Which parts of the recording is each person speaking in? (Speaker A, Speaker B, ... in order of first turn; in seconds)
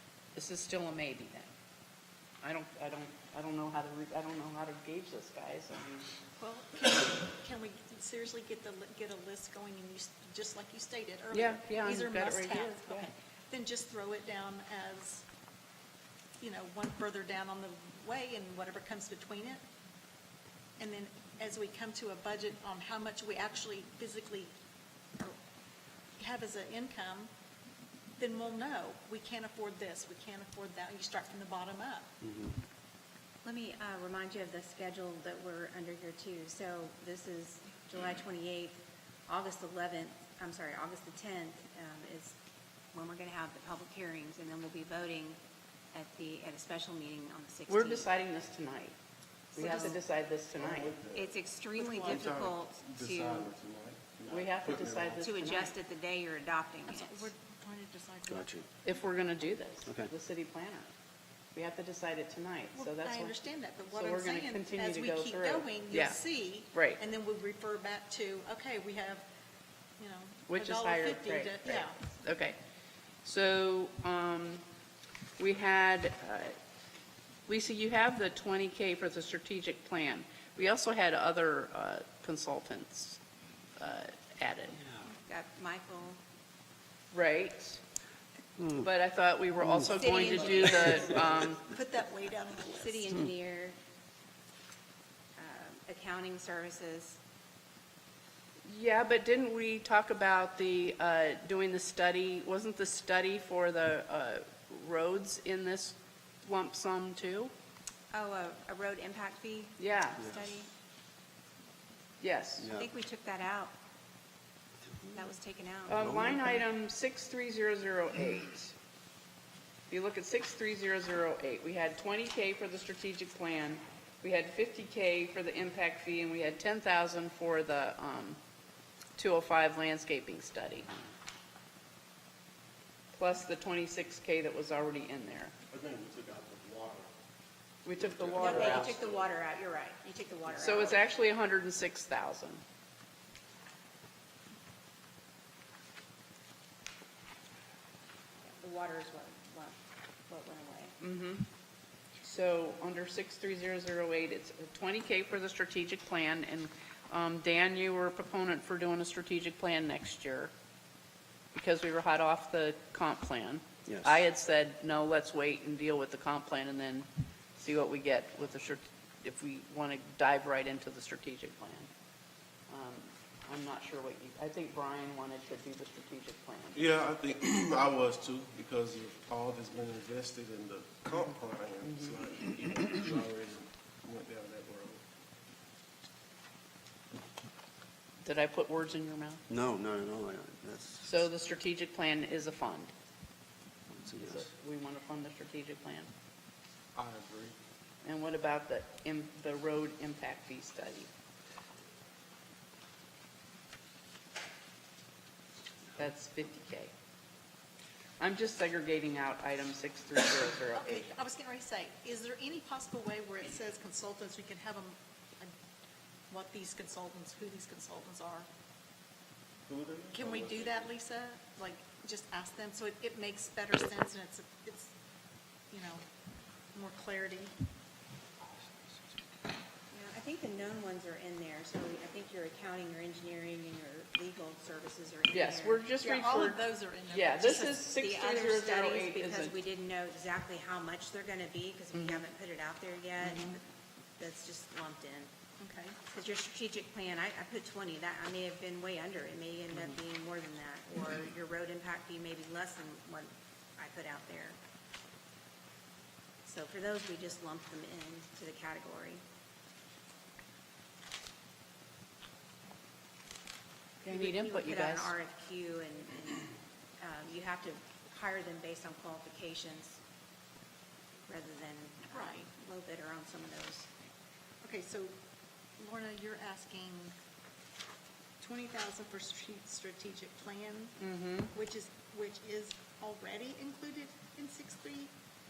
Speaker A: 0.3-1.5, 2.4-6.1, 11.3-13.1, 47.7-49.0, 49.5-51.0, 54.3-55.7, 58.9-60.9, 61.5-63.4, 63.9-66.2, 66.7-67.0, 70.5-72.6, 73.2-74.6, 75.4-76.5, 77.5-83.2, 83.8-84.8, 87.1-87.8, 88.7-91.6, 98.6-107.5, 109.8-110.2, 112.2-112.7, 115.9-118.7, 119.9-128.4, 129.2-130.9, 133.1-135.5, 137.8-139.0, 140.6-142.6, 151.0-151.5, 152.2-160.5, 161.5-171.9, 172.7-176.9, 181.8-182.2, 188.2-189.4, 191.0-192.9, 194.2-196.1, 198.0-201.1, 205.9-206.9, 208.2-211.1, 235.3-239.6, 241.9-242.2, 243.2-243.5, 264.0-265.1, 281.0-281.5
Speaker B: 6.4-15.2, 16.4-19.6, 20.8-24.5, 26.2-27.3, 28.2-32.1, 56.9-58.5, 62.7-69.2, 70.0-72.0, 90.9-93.1, 210.8-215.5, 216.3-218.5, 220.1-224.9, 225.7-226.0, 226.7-227.5, 236.0-237.9, 245.6-246.0, 272.1-272.5, 274.6-275.1, 275.8-277.1, 278.4-281.0, 281.5-285.1
Speaker C: 32.2-32.5, 58.3-58.7, 112.6-112.8, 115.9-116.6, 189.5-191.0, 193.9-194.4
Speaker D: 33.5-42.4, 42.9-45.4, 45.9-48.1, 49.5-50.0, 51.1-53.5, 55.2-57.3, 85.0-86.2, 89.9-91.3, 92.6-93.8, 95.4-97.2, 108.1-110.7, 112.7-113.7, 115.1-116.0, 138.3-141.0, 148.4-149.8, 150.3-151.0, 229.9-235.8, 237.5-243.6, 244.2-245.3, 246.0-254.6, 256.4-259.2, 264.1-270.0, 271.3-274.1
Speaker E: 50.5-55.3, 135.7-137.1, 137.9-139.2, 176.8-185.0, 196.9-197.6, 219.7-220.9